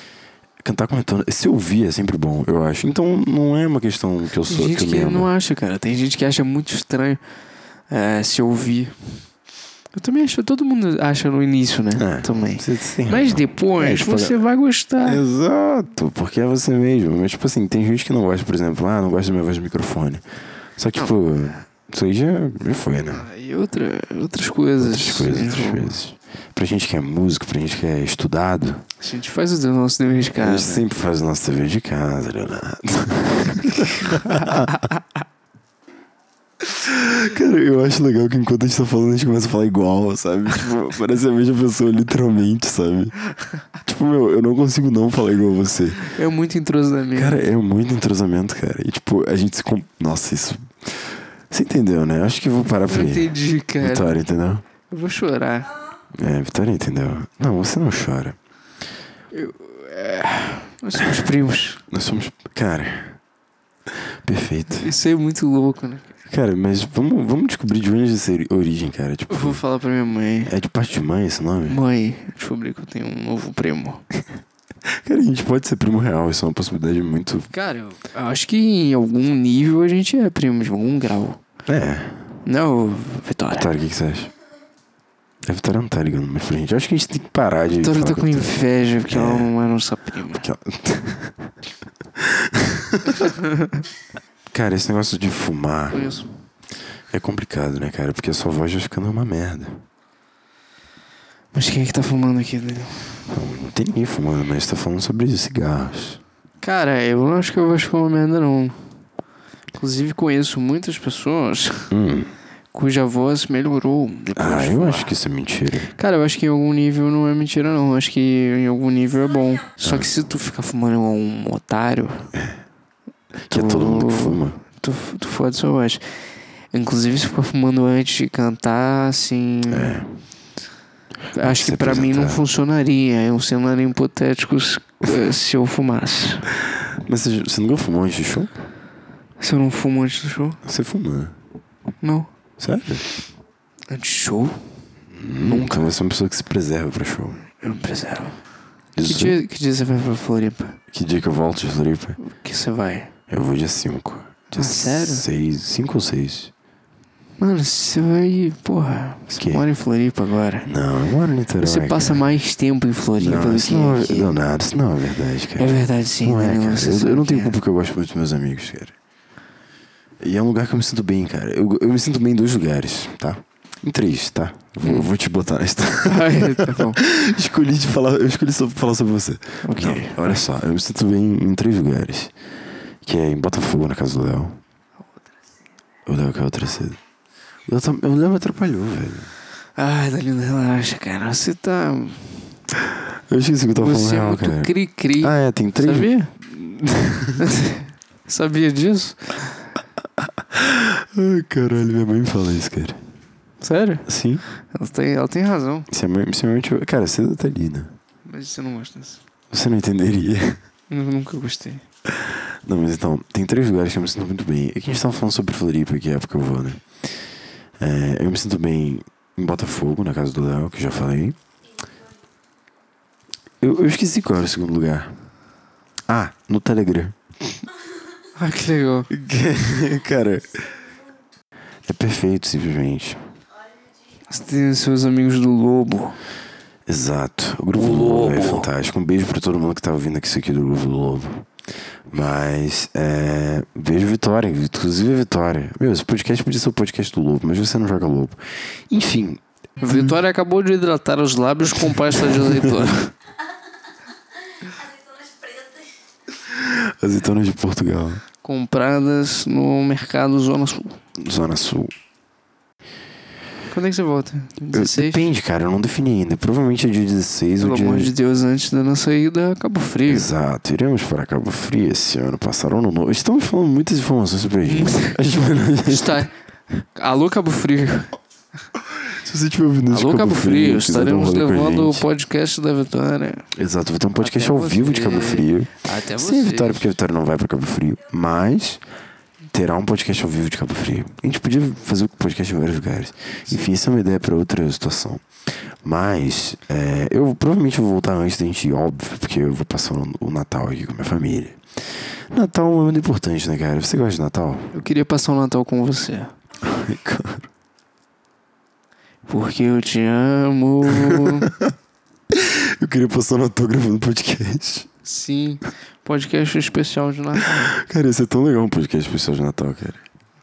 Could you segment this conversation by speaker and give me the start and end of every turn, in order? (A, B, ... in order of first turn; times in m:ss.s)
0:00.6-0:05.3 A
0:04.5-0:07.2 B
0:07.9-0:09.2 B
0:09.9-0:15.2 B
0:11.9-0:14.4 A
0:15.0-0:20.2 A
0:20.8-0:23.3 A
0:23.1-0:26.0 B
0:24.8-0:28.8 A
0:29.0-0:30.8 B
0:30.4-0:34.9 A
0:36.6-0:43.2 A
0:43.8-0:46.1 A
0:46.0-0:47.4 B
0:47.1-0:54.6 A
0:52.9-0:54.1 B
0:54.9-0:55.7 B
0:56.1-0:58.4 A
0:59.3-1:01.8 B
1:01.9-1:03.2 A
1:04.2-1:04.9 A
1:04.8-1:06.1 B
1:06.3-1:09.6 A
1:09.3-1:10.5 B
1:10.5-1:11.8 A
1:11.7-1:14.0 B
1:14.9-1:17.5 A
1:17.5-1:21.4 B
1:21.7-1:22.2 A
1:22.4-1:23.7 B
1:23.5-1:24.3 A
1:25.4-1:28.6 A
1:27.8-1:30.5 B
1:29.1-1:29.5 A
1:30.3-1:31.5 A
1:32.2-1:33.3 A
1:33.3-1:33.7 B
1:34.5-1:36.2 A
1:35.9-1:36.3 B
1:37.1-1:39.8 A
1:41.5-1:43.2 B
1:43.3-1:46.2 A
1:46.6-1:48.8 B
1:49.8-1:51.9 B
1:51.9-1:52.3 A
1:52.7-1:55.1 B
1:54.4-1:55.9 A
1:56.0-2:02.3 B
1:59.8-2:00.1 A
2:03.5-2:04.6 A
2:03.5-2:06.0 B
2:06.7-2:10.0 B
2:09.7-2:10.1 A
2:11.3-2:12.4 A
2:11.3-2:16.5 B
2:16.7-2:18.5 A
2:19.4-2:20.6 B
2:20.6-2:21.4 A
2:22.0-2:22.3 B
2:22.6-2:23.0 A
2:23.9-2:24.6 B
2:25.1-2:27.4 A
2:25.5-2:25.9 B
2:27.6-2:28.4 B
2:29.0-2:29.4 A
2:29.0-2:30.8 B
2:30.9-2:32.2 A
2:32.2-2:33.1 B
2:33.3-2:36.5 A
2:34.5-2:35.3 B
2:37.4-2:40.7 B
2:39.3-2:39.6 A
2:40.6-2:42.2 A
2:41.6-2:44.3 B
2:43.2-2:49.0 A
2:45.6-2:47.6 B
2:50.2-3:02.3 A
2:54.8-2:55.1 B
2:56.0-2:57.0 B
2:59.6-3:00.4 B
3:03.0-3:04.6 A
3:06.1-3:07.0 A
3:07.7-3:09.3 A
3:09.8-3:12.6 B
3:13.3-3:17.5 A
3:13.8-3:16.3 B
3:17.4-3:19.6 B
3:20.5-3:23.0 A
3:23.6-3:24.0 B
3:24.1-3:24.4 A
3:24.6-3:25.9 B
3:25.9-3:28.0 A
3:28.2-3:29.2 B
3:29.5-3:30.6 A
3:30.9-3:31.8 B
3:32.1-3:36.8 A
3:37.8-3:41.4 A
3:43.6-3:45.1 A
3:46.1-3:47.6 A
3:48.4-3:49.1 B
3:49.1-3:50.8 A
3:50.6-3:51.0 C
3:51.9-3:53.2 A
3:53.7-3:54.2 C
3:54.3-3:56.2 B
3:56.9-4:01.5 A
3:57.8-3:58.7 B
4:02.1-4:10.2 A
4:09.8-4:13.1 B
4:12.2-4:12.9 A
4:14.6-4:15.9 C
4:16.5-4:18.2 A
4:18.4-4:21.0 B
4:21.2-4:21.9 A
4:23.7-4:25.3 B
4:24.7-4:28.1 A
4:27.6-4:30.3 B
4:30.1-4:36.3 A
4:34.7-4:35.2 B
4:35.9-4:38.2 B
4:38.9-4:42.0 A
4:39.9-4:43.5 B
4:43.5-4:48.8 A
4:44.2-4:46.9 B
4:49.5-4:55.3 A
4:55.8-5:04.7 A
5:04.7-5:06.4 B
5:06.6-5:07.5 A
5:09.3-5:11.5 B
5:10.9-5:11.7 A
5:12.3-5:14.9 A
5:15.0-5:17.7 B
5:17.7-5:20.0 A